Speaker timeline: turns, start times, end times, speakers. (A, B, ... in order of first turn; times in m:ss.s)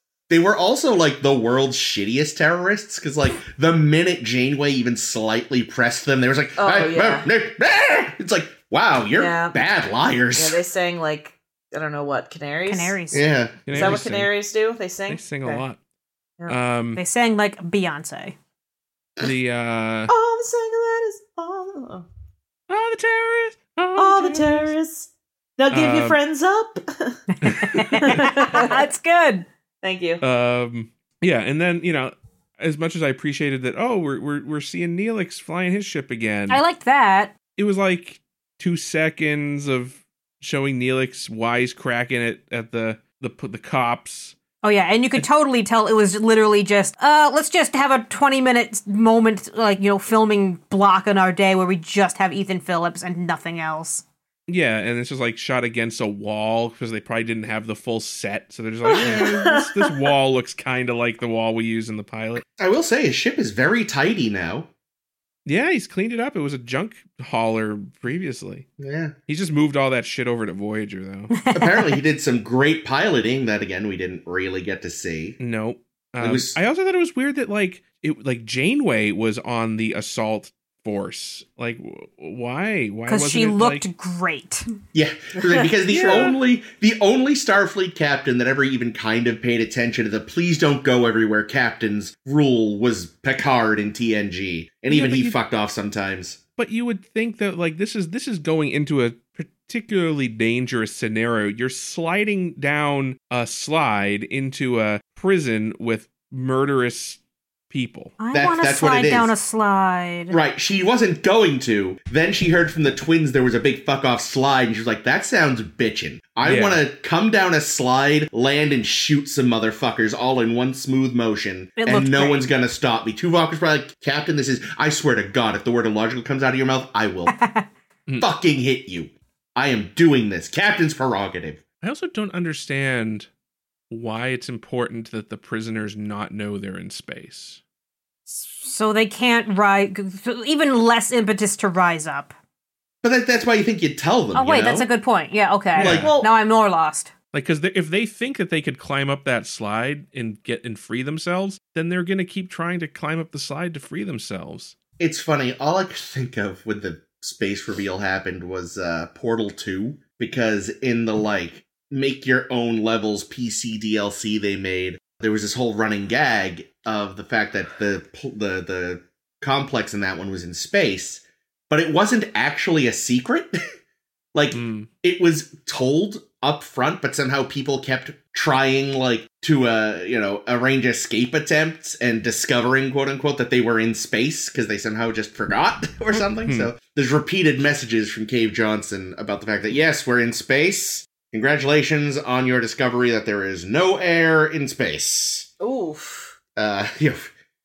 0:00.3-0:10.6 A
0:06.6-0:07.3 B
0:09.2-0:09.6 B
0:10.4-0:13.0 B
0:12.7-0:13.2 C
0:13.1-0:14.0 A
0:13.7-0:14.3 D
0:13.7-0:15.6 B
0:15.1-0:15.8 D
0:16.5-0:17.0 D
0:17.0-0:18.4 C
0:19.2-0:20.1 D
0:20.1-0:22.1 B
0:22.7-0:24.7 D
0:24.0-0:28.8 B
0:25.7-0:26.2 D
0:27.4-0:29.5 C
0:27.4-0:28.3 D
0:29.8-0:30.2 B
0:30.2-0:36.6 D
0:36.5-0:37.4 C
0:37.6-0:44.4 D
0:44.6-0:54.0 C
0:54.5-1:02.4 D
0:58.8-1:00.0 B
1:02.6-1:04.7 A
1:05.5-1:08.7 D
1:08.8-1:09.1 A
1:09.3-1:11.3 D
1:11.4-1:12.0 C
1:11.5-1:15.4 A
1:15.4-1:23.9 D
1:16.2-1:16.6 A
1:23.1-1:24.6 C
1:24.9-1:36.4 A
1:25.9-1:26.4 D
1:34.9-1:35.4 D
1:36.6-1:47.2 D
1:47.7-1:48.2 D
1:48.2-1:50.4 C
1:48.3-1:49.3 A
1:50.3-2:07.4 A
1:56.4-1:56.8 D
2:01.8-2:02.5 C
2:07.3-2:07.7 C
2:08.2-2:11.6 A
2:11.8-2:13.3 D
2:13.9-2:17.6 D
2:18.3-2:22.3 C
2:23.0-2:24.9 A
2:24.4-2:27.1 C
2:25.8-2:26.2 D
2:25.8-2:26.2 A
2:25.9-2:26.3 B
2:27.3-2:34.8 D
2:35.0-2:53.6 A
2:54.3-3:15.5 A
2:54.5-2:54.9 D
3:06.4-3:06.7 D
3:15.6-3:16.4 B
3:16.6-3:17.3 A